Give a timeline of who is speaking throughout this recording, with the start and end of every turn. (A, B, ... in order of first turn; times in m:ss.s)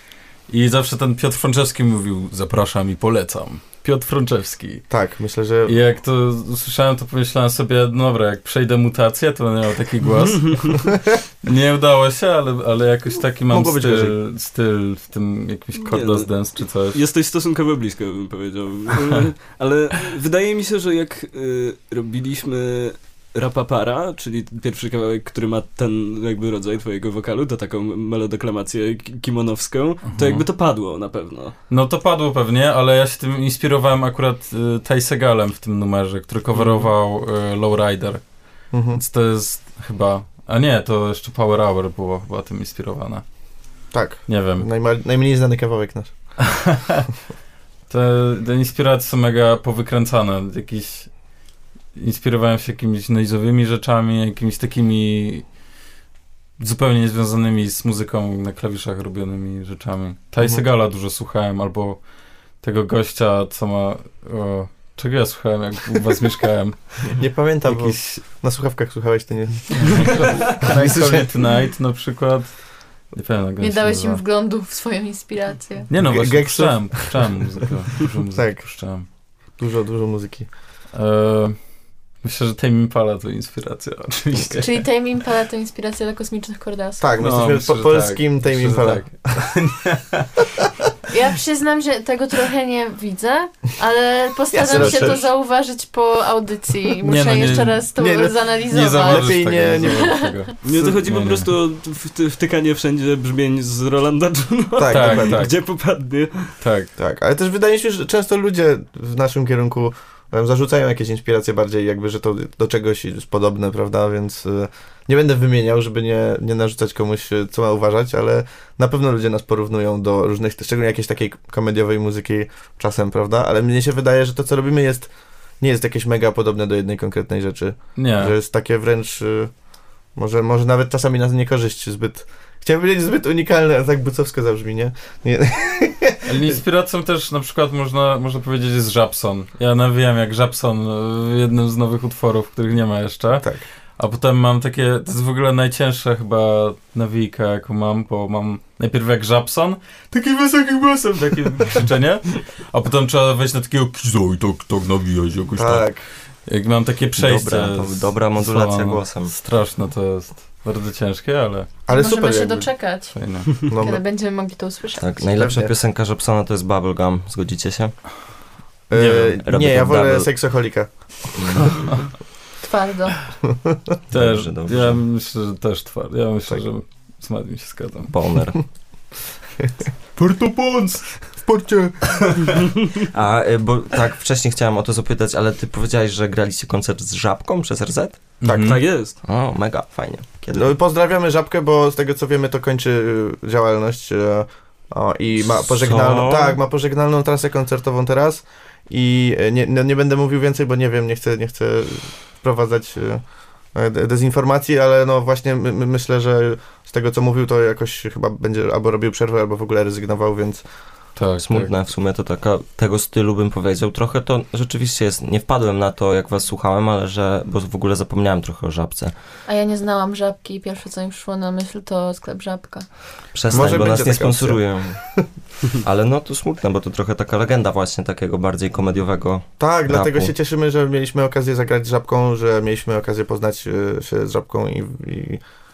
0:00.5-0:04.8 A
0:04.9-0:05.8 B
0:05.6-0:17.0 A
0:10.2-0:10.8 C
0:13.5-0:14.2 B
0:15.9-0:31.5 C
0:30.0-0:30.5 A
0:31.7-0:38.2 A
0:38.7-0:39.0 B
0:38.9-0:43.2 A
0:43.9-0:46.1 B
0:44.3-0:44.7 A
0:46.4-0:47.1 A
0:47.9-0:51.1 A
0:52.0-0:55.4 A
0:56.6-1:02.0 A
1:02.6-1:07.0 A
1:07.1-1:11.3 B
1:07.6-1:08.2 A
1:09.8-1:12.6 A
1:13.1-1:14.2 A
1:13.6-1:15.9 D
1:15.9-1:19.1 A
1:16.0-1:17.4 B
1:18.4-1:18.7 B
1:19.6-1:20.5 B
1:20.9-1:21.6 A
1:22.2-1:24.8 A
1:24.6-1:27.1 D
1:27.0-1:29.5 B
1:27.2-1:30.4 A
1:31.1-1:40.4 D
1:34.5-1:35.2 B
1:34.7-1:35.2 A
1:37.0-1:37.8 A
1:38.0-1:40.2 B
1:38.7-1:41.5 A
1:40.6-1:46.5 C
1:40.7-1:41.0 B
1:44.8-1:45.5 B
1:44.9-1:45.5 A
1:46.6-1:46.9 A
1:47.0-2:05.1 B
2:05.6-2:09.5 B
2:08.0-2:08.4 A
2:10.2-2:16.6 B
2:16.2-2:35.9 A
2:35.6-2:36.0 B
2:36.5-2:41.7 A
2:37.2-2:39.3 E
2:41.9-2:42.7 B
2:41.9-2:45.1 D
2:43.2-2:43.5 A
2:43.7-2:44.0 B
2:45.0-2:48.0 E
2:45.4-2:45.7 B
2:48.9-2:50.9 B
2:48.9-2:49.4 A
2:49.4-2:50.3 E
2:51.4-2:51.8 E
2:52.6-2:53.2 D
2:54.1-2:58.1 A
2:54.1-2:55.0 E
2:58.1-2:58.6 E
3:00.2-3:02.6 A
3:03.0-3:08.2 E
3:08.4-3:08.8 A
3:08.5-3:08.7 B
3:08.5-3:09.2 C
3:09.2-3:10.8 E
3:10.5-3:23.2 B
3:15.5-3:16.6 E
3:23.7-3:30.6 B
3:31.2-3:31.7 A
3:31.4-3:39.1 E
3:39.5-3:42.8 D
3:43.3-3:45.0 E
3:43.5-3:45.2 B
3:45.8-3:50.3 E
3:49.6-3:55.4 B